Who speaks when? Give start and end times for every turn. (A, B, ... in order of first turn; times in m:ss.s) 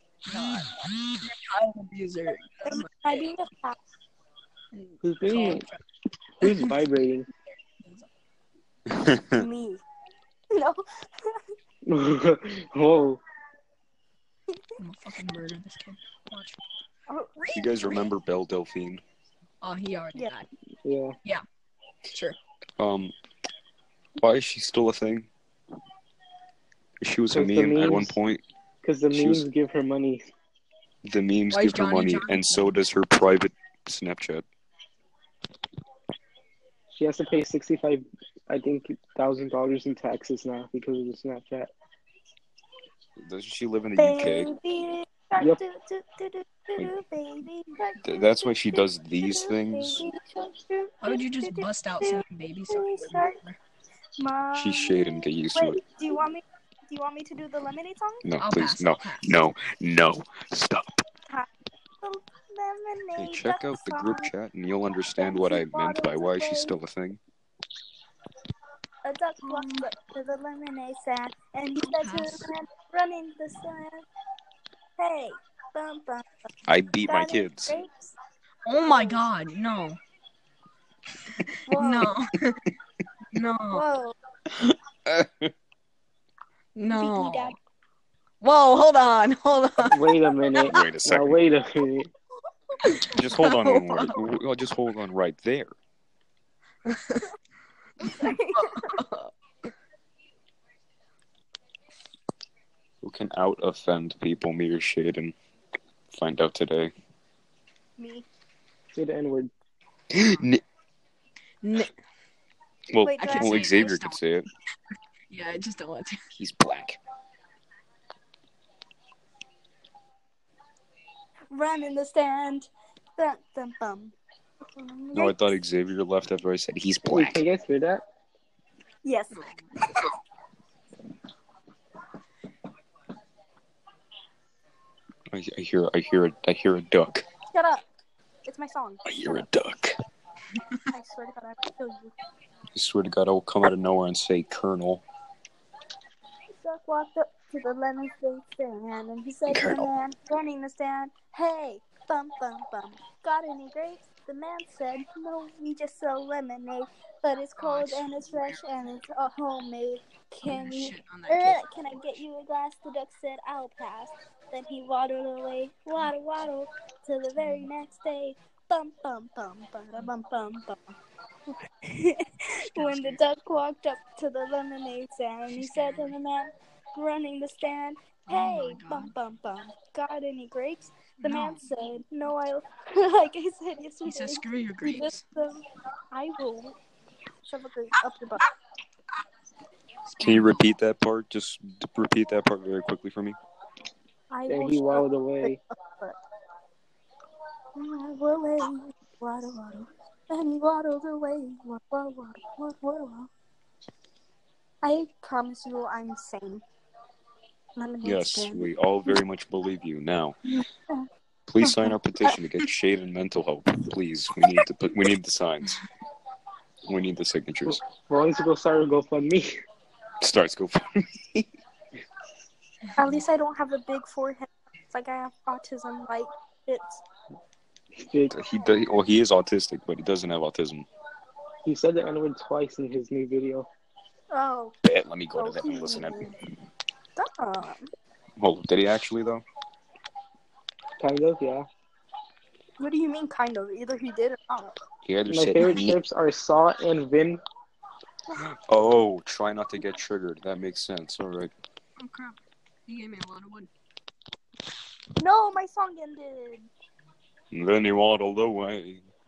0:00.3-0:03.2 A
0:02.7-0:03.8 B
0:04.7-0:05.8 A
0:05.0-0:05.7 C
0:06.4-0:07.3 C
0:06.4-0:06.8 A
0:07.8-0:08.1 A
0:08.9-0:09.4 D
0:09.4-0:09.8 B
0:10.5-0:11.4 B
0:11.9-0:13.2 C
0:14.8-0:16.6 A
0:17.1-0:18.0 B
0:17.5-0:19.0 D
0:19.6-0:20.5 A
0:20.8-0:21.2 C
0:22.1-0:22.4 A
0:22.8-0:23.1 D
0:24.2-0:25.3 D
0:27.0-0:28.4 D
0:27.3-0:28.2 C
0:28.8-0:30.3 C
0:29.1-0:29.5 D
0:31.0-0:34.4 D
0:31.5-0:32.7 A
0:36.9-0:41.7 C
0:43.2-0:44.5 D
0:44.0-0:53.4 B
0:48.0-0:50.0 D
0:51.0-0:53.6 A
0:54.2-0:58.2 B
0:54.6-0:55.8 D
0:58.2-1:00.9 D
0:58.4-0:59.4 A
1:02.0-1:04.3 B
1:03.2-1:07.2 D
1:05.2-1:06.8 B
1:09.0-1:14.0 B
1:09.5-1:09.8 A
1:11.8-1:12.5 A
1:15.0-1:16.3 B
1:16.7-1:17.8 D
1:17.0-1:18.2 B
1:18.6-1:20.0 A
1:18.8-1:19.2 B
1:21.4-1:22.6 A
1:21.7-1:22.2 B
1:23.3-1:23.8 A
1:23.7-1:24.2 B
1:24.5-1:25.5 D
1:26.8-1:27.6 A
1:26.9-1:27.6 B
1:28.4-1:30.4 A
1:29.8-1:32.1 C
1:30.7-1:31.4 D
1:32.8-1:34.2 A
1:33.0-1:35.7 D
1:36.9-1:37.3 A
1:38.0-1:39.0 B
1:38.0-1:39.3 A
1:43.0-1:45.4 D
1:46.1-1:46.9 D
1:48.0-1:48.3 B
1:49.0-1:49.5 C
1:50.1-1:50.6 D
1:51.6-1:51.9 A
1:52.9-1:54.5 D
1:53.0-1:53.9 B
1:53.2-1:54.2 A
1:55.3-1:56.2 A
1:56.4-1:57.0 D
2:01.5-2:04.1 B
2:04.7-2:05.5 B
2:05.1-2:07.4 D
2:07.0-2:08.0 C
2:09.0-2:09.5 B
2:15.3-2:17.2 D
2:17.5-2:17.8 B
2:18.4-2:19.5 B
2:19.0-2:20.0 D
2:20.9-2:22.1 B
2:22.7-2:25.0 D
2:26.6-2:51.0 B
2:29.5-2:29.9 D
2:37.6-2:38.6 A
2:40.4-2:41.6 A
2:51.5-3:06.8 B
2:52.8-2:53.2 A
2:55.6-2:56.1 A
2:58.3-2:59.1 A
3:01.2-3:01.6 A
3:04.0-3:05.2 A
3:07.5-3:08.5 B
3:10.1-3:10.7 A
3:10.2-3:13.4 D
3:14.3-3:16.2 B
3:14.5-3:15.6 C
3:17.8-3:23.3 B
3:24.8-3:26.6 B
3:27.8-3:28.7 B
3:28.0-3:30.4 D
3:30.5-3:31.1 B
3:31.5-3:35.8 D
3:31.6-3:32.4 B
3:36.8-3:37.8 D
3:37.7-3:39.5 C
3:40.2-3:41.5 D
3:43.0-3:47.0 B
3:48.0-3:48.3 C
3:48.3-3:50.9 D
3:51.6-3:53.7 C
3:54.3-3:54.8 B
3:54.8-3:56.2 D
3:55.4-3:56.4 B
3:57.2-3:57.9 B
3:58.4-3:59.4 D
4:01.0-4:01.7 C
4:02.8-4:04.8 B
4:05.0-4:06.0 D
4:05.3-4:07.4 C
4:08.4-4:11.5 D
4:12.0-4:13.7 A
4:15.2-4:16.7 B
4:17.5-4:19.1 D